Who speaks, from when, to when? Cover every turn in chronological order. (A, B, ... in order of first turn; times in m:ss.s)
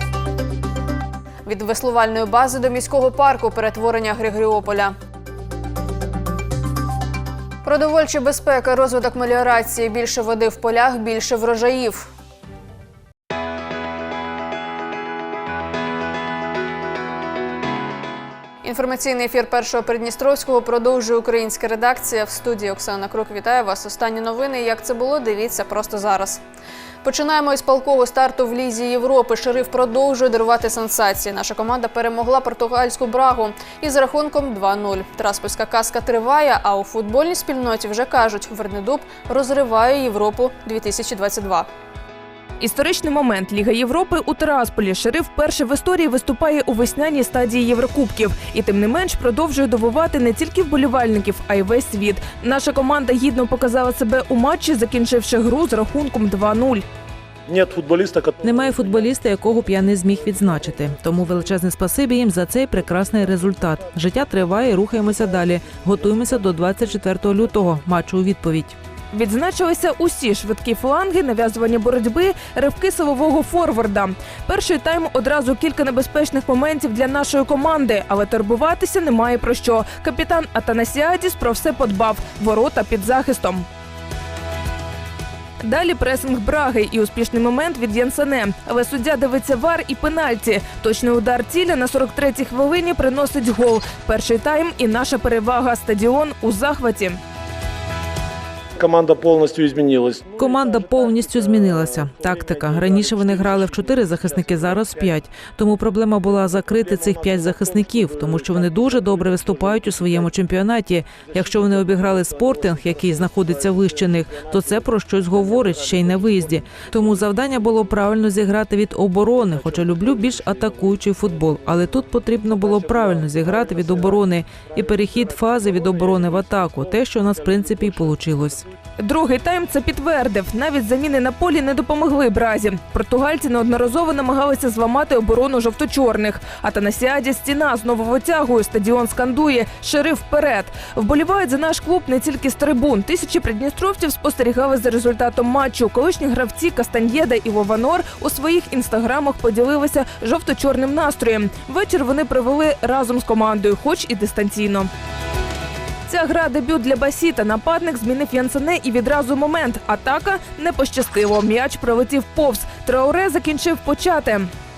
0:01.4-0:04.9 A
0:07.6-0:12.1 A
0:18.6-0:26.4 A
0:27.0-0:41.7 A
0:42.6-0:56.8 B
0:57.5-1:01.7 C
0:58.4-1:08.8 D
1:02.7-1:07.8 C
1:09.1-1:23.7 B
1:25.6-1:37.2 B
1:38.8-1:45.4 C
1:40.4-2:08.6 D
1:46.1-1:50.5 C
1:51.2-1:58.1 C
1:59.2-2:08.6 C
2:09.0-2:34.9 B
2:36.1-2:44.5 B